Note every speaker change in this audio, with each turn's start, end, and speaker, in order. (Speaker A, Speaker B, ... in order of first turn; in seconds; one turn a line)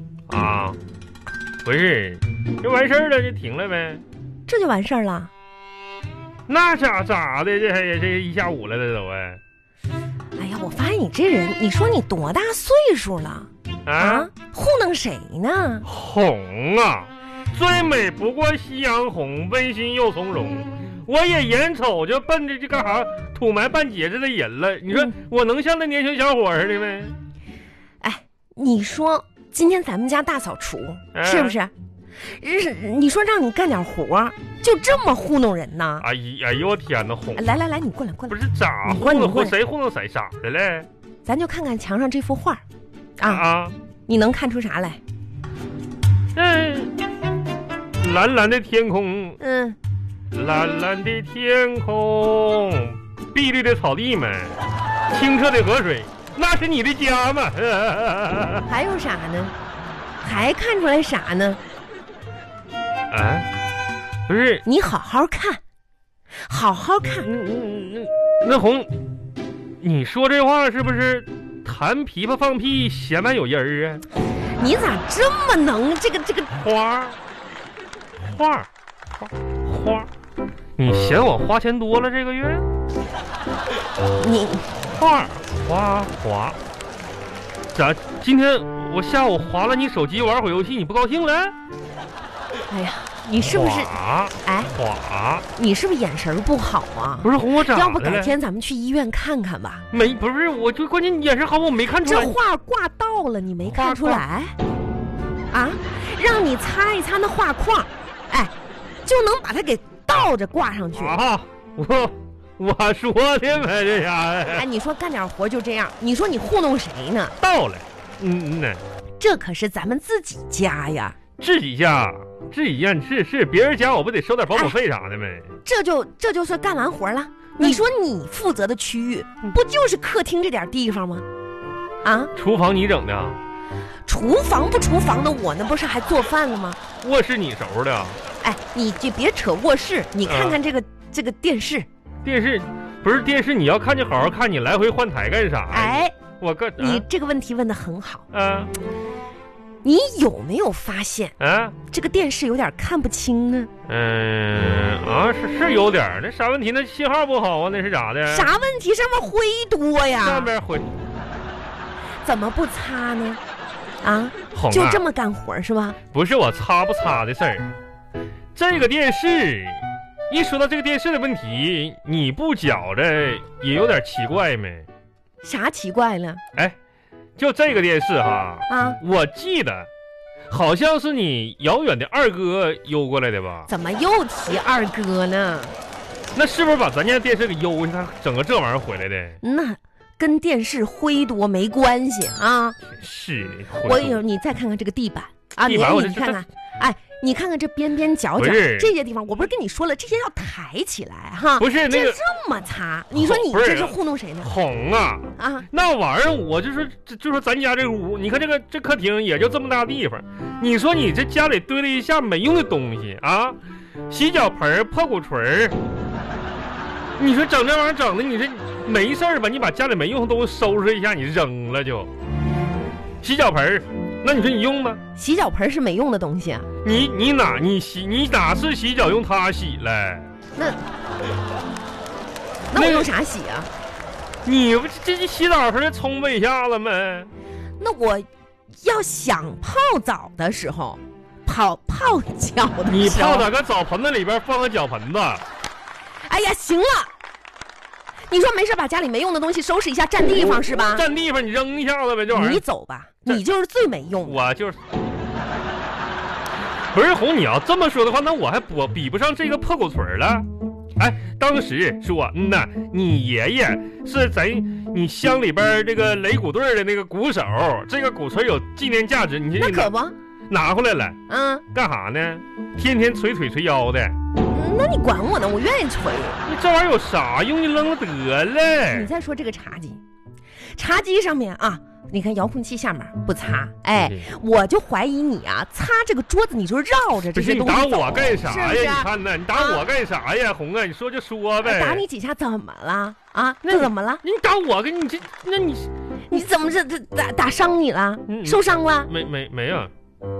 Speaker A: 0.3-0.8
Speaker A: 1.6-4.0
Speaker B: 4.5-5.3
Speaker A: 6.5-9.4
Speaker B: 10.3-15.8
Speaker A: 13.8-14.3
Speaker A: 15.8-27.1
Speaker B: 28.0-31.7
Speaker A: 31.1-31.6
Speaker B: 32.2-36.1
Speaker A: 36.0-37.4
Speaker B: 37.4-39.5
Speaker A: 38.3-40.9
Speaker B: 41.2-42.6
Speaker B: 43.2-43.5
Speaker A: 43.2-43.7
Speaker B: 44.1-45.0
Speaker A: 46.3-46.9
Speaker A: 48.0-49.4
Speaker B: 49.4-49.8
Speaker A: 50.3-58.7
Speaker B: 58.6-59.5
Speaker B: 60.2-61.6
Speaker A: 63.1-63.5
Speaker A: 64.3-64.6
Speaker B: 64.6-65.6
Speaker B: 66.5-67.3
Speaker A: 67.2-68.9
Speaker A: 69.8-74.0
Speaker B: 74.6-76.5
Speaker A: 76.6-77.2
Speaker A: 78.2-80.1
Speaker A: 80.8-82.7
Speaker B: 84.2-84.7
Speaker A: 84.8-86.6
Speaker A: 87.7-91.5
Speaker B: 92.7-94.7
Speaker A: 93.4-95.4
Speaker B: 95.5-99.8
Speaker A: 97.2-98.3
Speaker A: 99.9-102.3
Speaker B: 102.0-104.5
Speaker A: 103.6-104.2
Speaker B: 105.5-108.5
Speaker B: 109.0-111.2
Speaker A: 111.0-114.6
Speaker B: 114.5-117.3
Speaker A: 117.4-118.8
Speaker B: 119.2-121.2
Speaker A: 121.4-125.5
Speaker B: 125.6-131.2
Speaker B: 132.0-132.3
Speaker A: 132.3-133.4
Speaker B: 134.1-136.8
Speaker A: 137.0-138.2
Speaker B: 138.4-141.9
Speaker A: 140.2-140.6
Speaker A: 142.2-147.1
Speaker B: 145.7-146.1
Speaker B: 146.8-148.3
Speaker A: 148.3-148.7
Speaker B: 149.8-151.3
Speaker A: 151.4-151.8
Speaker B: 151.9-153.7
Speaker A: 153.9-158.5
Speaker B: 158.3-160.5
Speaker A: 160.2-160.9
Speaker B: 162.2-163.4
Speaker B: 164.0-166.0
Speaker A: 164.5-165.0
Speaker A: 166.1-167.7
Speaker A: 168.5-174.9
Speaker B: 175.4-176.4
Speaker A: 177.4-179.9
Speaker B: 178.7-179.0
Speaker A: 180.5-183.7
Speaker B: 183.7-185.8
Speaker A: 186.3-189.4
Speaker B: 189.4-192.8
Speaker A: 192.8-194.2
Speaker B: 193.8-204.5
Speaker A: 195.6-196.4
Speaker A: 198.4-198.9
Speaker A: 201.6-202.2
Speaker A: 203.1-213.6
Speaker B: 205.4-205.7
Speaker A: 214.1-215.8
Speaker A: 217.2-222.1
Speaker A: 223.2-225.0
Speaker B: 225.2-226.7
Speaker A: 226.8-230.3
Speaker B: 232.7-233.7
Speaker A: 232.7-233.1
Speaker A: 234.4-237.3
Speaker B: 237.8-238.3
Speaker B: 238.8-243.5
Speaker A: 242.9-245.4
Speaker B: 246.2-247.1
Speaker B: 248.3-251.1
Speaker A: 250.8-252.6
Speaker B: 252.3-254.4
Speaker A: 254.2-254.8
Speaker A: 256.9-269.9
Speaker B: 269.6-270.1
Speaker A: 270.5-274.1
Speaker B: 271.3-271.6
Speaker B: 274.5-276.4
Speaker A: 276.4-279.1
Speaker B: 278.9-280.0
Speaker B: 280.7-289.9
Speaker A: 283.9-284.3
Speaker A: 287.3-292.0
Speaker B: 291.6-294.2
Speaker A: 293.6-295.9
Speaker B: 296.3-299.1
Speaker A: 298.3-299.9